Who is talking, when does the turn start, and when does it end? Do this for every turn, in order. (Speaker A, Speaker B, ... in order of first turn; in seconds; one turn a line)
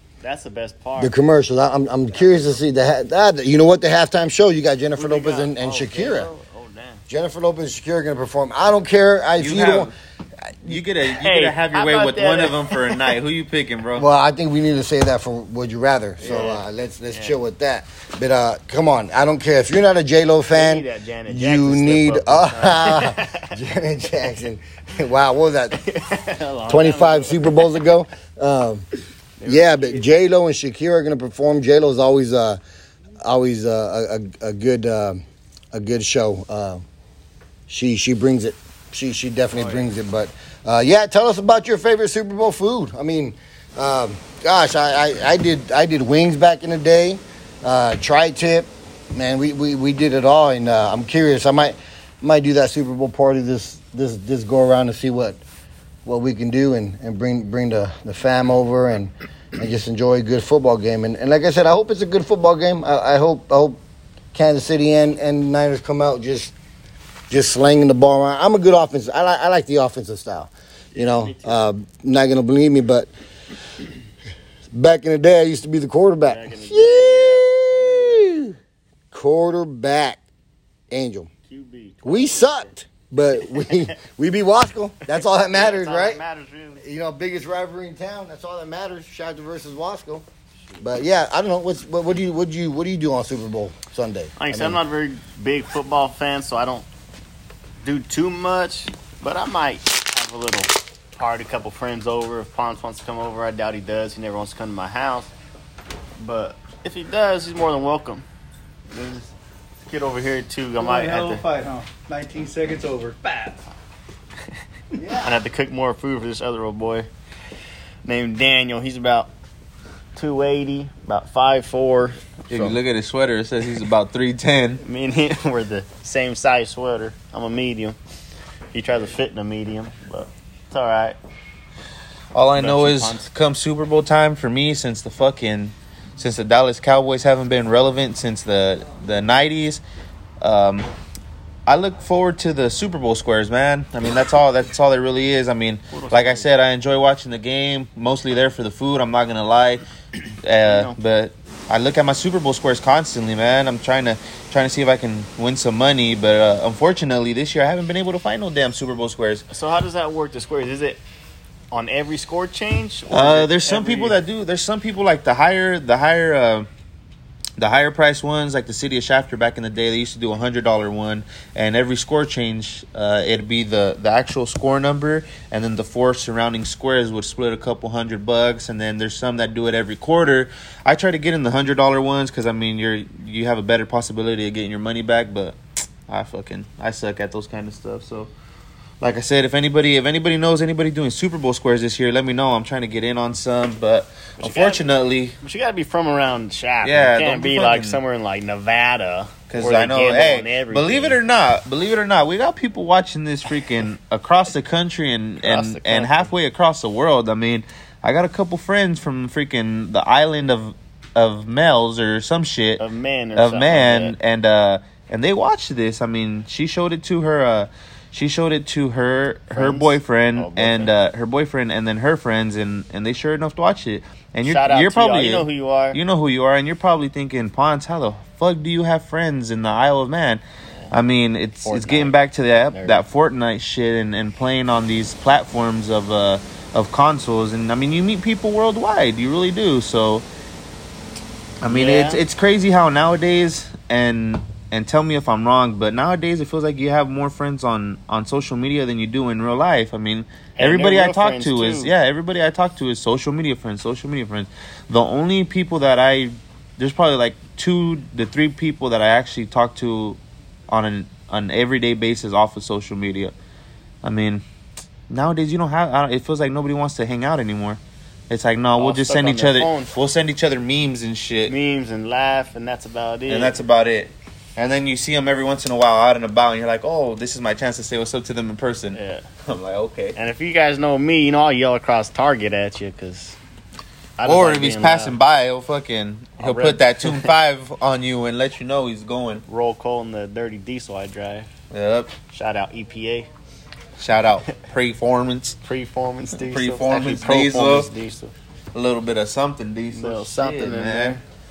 Speaker A: 0.2-1.1
Speaker B: 1.0-6.3
Speaker A: 2.1-2.5
Speaker A: 5.0-7.0
Speaker B: 7.1-9.9
Speaker C: 9.4-9.9
Speaker C: 10.6-14.1
Speaker A: 11.1-13.0
Speaker B: 14.0-25.8
Speaker A: 16.2-17.4
Speaker A: 20.5-23.5
Speaker A: 25.8-27.6
Speaker B: 26.7-28.9
Speaker A: 29.4-30.0
Speaker B: 29.5-32.6
Speaker B: 33.2-35.2
Speaker B: 35.7-36.8
Speaker B: 37.7-55.4
Speaker A: 39.5-39.9
Speaker B: 56.0-63.8
Speaker B: 64.3-66.5
Speaker B: 67.3-73.1
Speaker A: 70.9-71.6
Speaker B: 74.7-78.5
Speaker A: 76.2-78.4
Speaker B: 79.1-80.2
Speaker B: 80.9-81.3
Speaker A: 81.5-82.7
Speaker B: 82.0-86.2
Speaker A: 85.1-86.8
Speaker B: 86.8-90.3
Speaker B: 90.8-94.8
Speaker A: 94.4-96.9
Speaker A: 97.8-105.3
Speaker A: 106.2-108.2
Speaker A: 108.9-109.3
Speaker A: 109.9-111.4
Speaker D: 110.8-113.5
Speaker A: 115.1-117.1
Speaker A: 118.0-119.3
Speaker A: 120.2-122.8
Speaker C: 122.5-124.8
Speaker A: 124.8-128.0
Speaker A: 128.7-131.2
Speaker C: 132.3-139.8
Speaker A: 132.6-133.3
Speaker C: 140.4-140.9
Speaker C: 141.7-149.8
Speaker A: 145.9-146.5
Speaker C: 150.4-159.5
Speaker A: 150.7-151.0
Speaker A: 159.5-161.0
Speaker A: 161.7-164.2
Speaker C: 163.1-166.7
Speaker C: 167.6-185.6
Speaker C: 186.1-188.3
Speaker C: 189.0-195.3
Speaker A: 194.4-194.8
Speaker A: 195.4-201.2
Speaker C: 196.8-198.0
Speaker C: 199.5-212.8
Speaker A: 205.4-206.3
Speaker A: 212.8-214.1
Speaker C: 213.4-240.2
Speaker A: 219.5-220.9
Speaker A: 224.4-226.0
Speaker A: 231.6-232.2
Speaker A: 232.7-233.0
Speaker C: 241.6-263.3
Speaker A: 241.7-242.2
Speaker A: 250.6-251.9
Speaker C: 264.0-264.4
Speaker C: 265.1-271.5
Speaker A: 268.8-269.9
Speaker A: 271.5-273.6
Speaker C: 273.3-280.2
Speaker A: 278.9-279.2
Speaker A: 280.2-283.4
Speaker A: 284.2-285.1
Speaker C: 284.2-289.4
Speaker A: 286.4-287.3
Speaker A: 289.5-291.5
Speaker C: 291.7-292.1
Speaker A: 292.3-293.3
Speaker C: 294.0-295.6
Speaker A: 295.6-298.3
Speaker C: 296.4-297.9
Speaker C: 298.7-301.2
Speaker A: 299.9-301.2